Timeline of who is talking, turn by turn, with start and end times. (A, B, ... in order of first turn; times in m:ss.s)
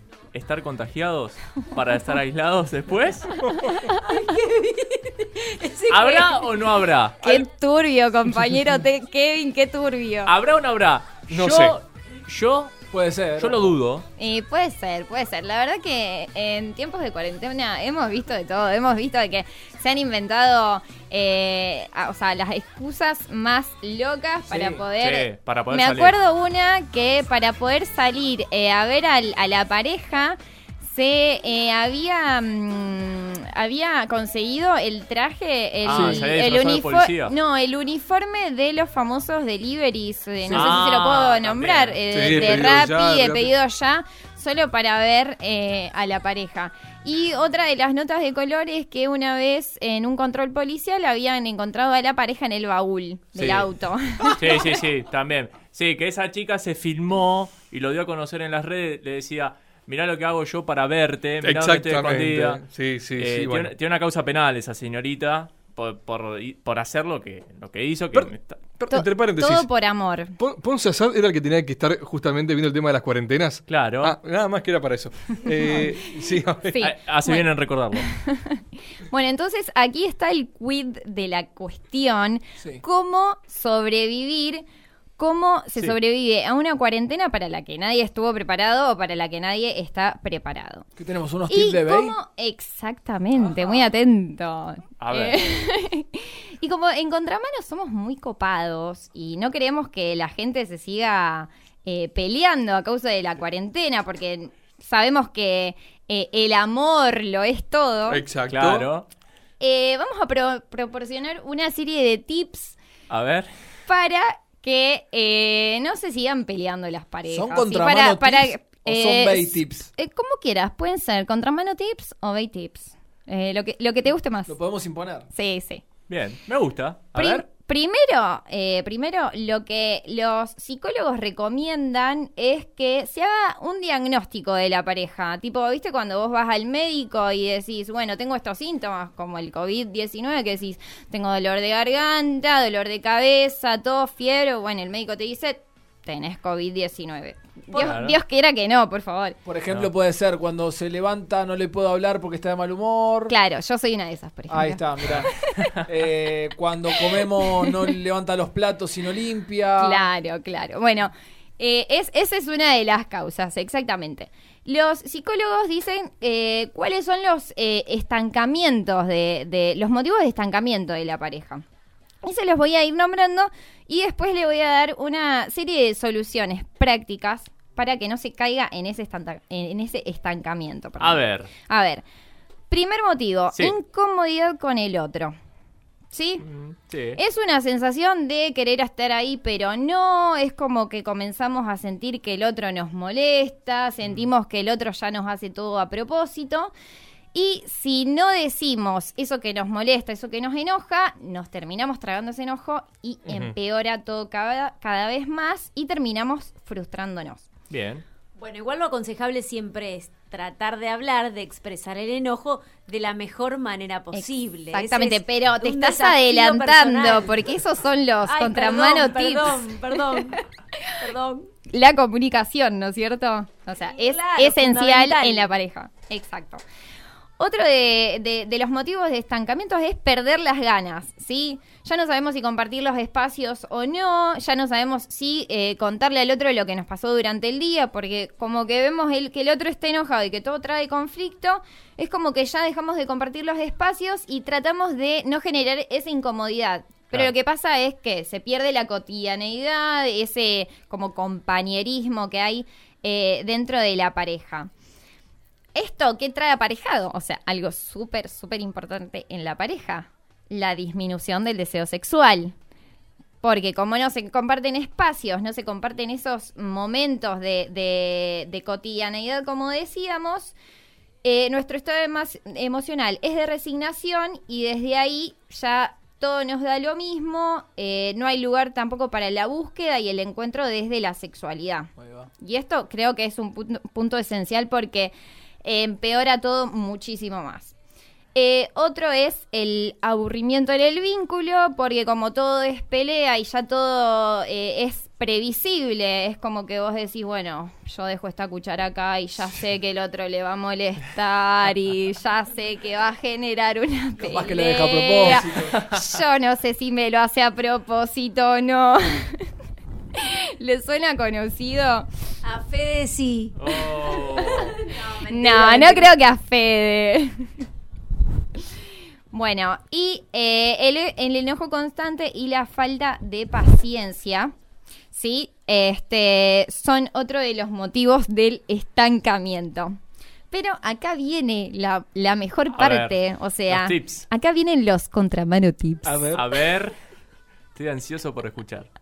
0:00.3-0:03.4 A
0:03.7-0:06.5 B
0:05.9-0:07.4 A
0:07.2-0:10.3 C
0:10.2-0:14.0 A
0:11.3-0:11.8 D
0:12.9-0:13.7 E
0:14.2-0:54.7 C
0:24.5-0:24.8 E
0:25.0-0:26.2 A
0:35.8-0:37.3 A
0:35.9-0:36.2 D
0:40.5-0:42.0 A
0:40.5-0:40.8 D
0:42.1-0:43.5 D
0:53.4-0:53.7 A
0:54.2-1:02.6 A
1:01.4-1:03.7 D
1:03.2-1:08.6 A
1:08.1-1:09.8 D
1:08.9-1:10.3 C
1:10.4-1:16.8 D
1:13.7-1:14.1 A
1:15.6-1:16.0 C
1:16.7-1:24.6 C
1:16.8-1:18.0 A
1:25.2-1:30.8 C
1:31.0-1:32.2 E
1:31.5-1:48.2 C
1:35.0-1:35.6 A
1:48.1-1:48.8 D
1:48.5-1:49.0 A
1:49.6-1:52.8 C
1:53.1-1:53.5 A
1:53.8-2:04.5 C
1:57.3-1:59.9 E
2:04.5-2:05.3 E
2:05.3-2:05.8 C
2:06.1-2:07.4 A
2:07.1-2:29.4 C
2:27.7-2:28.2 A
2:29.4-2:33.3 E
2:33.3-2:35.8 C
2:34.5-2:40.0 E
2:37.0-2:37.7 C
2:39.8-2:51.6 C
2:52.2-3:02.0 C
3:01.0-3:01.5 A
3:02.7-3:05.3 C
3:06.1-3:06.4 C
3:06.4-3:07.2 A
3:07.2-3:16.7 C
3:17.3-3:27.5 C
3:23.3-3:23.5 D
3:27.7-3:28.0 A
3:28.4-3:37.4 B
3:34.1-3:41.0 C
3:38.3-3:40.4 B
3:41.0-3:41.5 B
3:41.7-3:46.6 C
3:43.9-3:45.5 B
3:47.4-4:14.7 C
4:15.7-4:22.5 C
4:23.4-4:30.5 C
4:31.2-4:47.7 C
4:42.0-4:42.3 E
4:48.3-5:09.4 C
5:04.2-5:05.8 E
5:10.1-5:12.1 C
5:12.4-5:13.5 B
5:13.6-5:14.8 A
5:14.1-5:17.5 C
5:14.8-5:16.0 B
5:19.3-5:24.5 C
5:25.1-5:29.9 C
5:30.5-5:36.3 C
5:32.7-5:33.2 A
5:33.7-5:34.2 A
5:36.0-5:36.4 E
5:36.3-5:36.9 A
5:37.7-5:38.9 A